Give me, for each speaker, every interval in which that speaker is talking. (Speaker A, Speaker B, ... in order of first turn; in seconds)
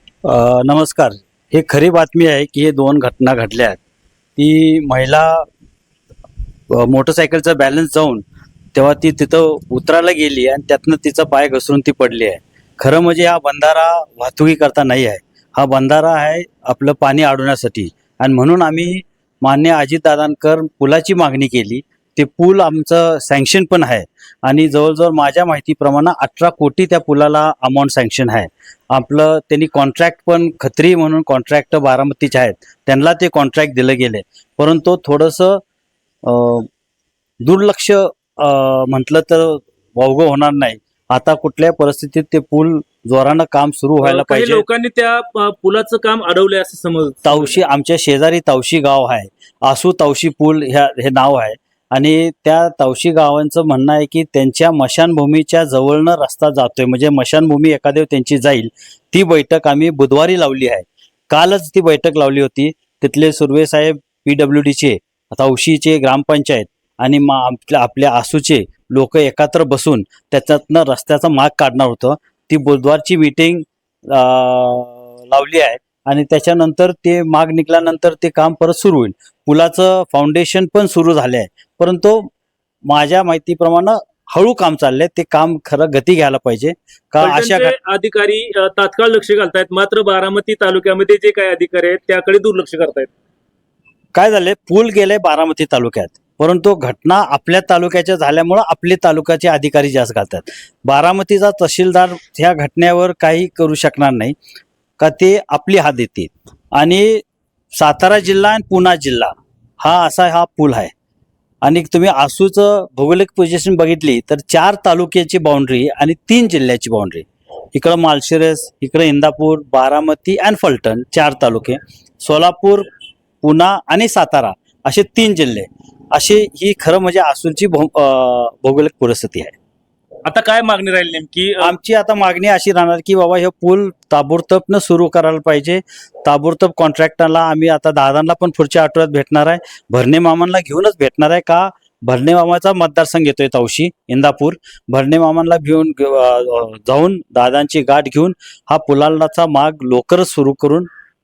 Speaker A: 0.2-3.8, 4.4-5.5, 6.7-8.2, 8.7-35.6, 36.2-36.7, 37.4-44.6, 47.2-82.3, 82.9-87.8, 94.1-104.3, 105.0-110.9, 111.6-122.8, 123.4-129.6, 131.6-150.9
Speaker B: 44.0-47.6, 87.2-93.1, 130.2-131.7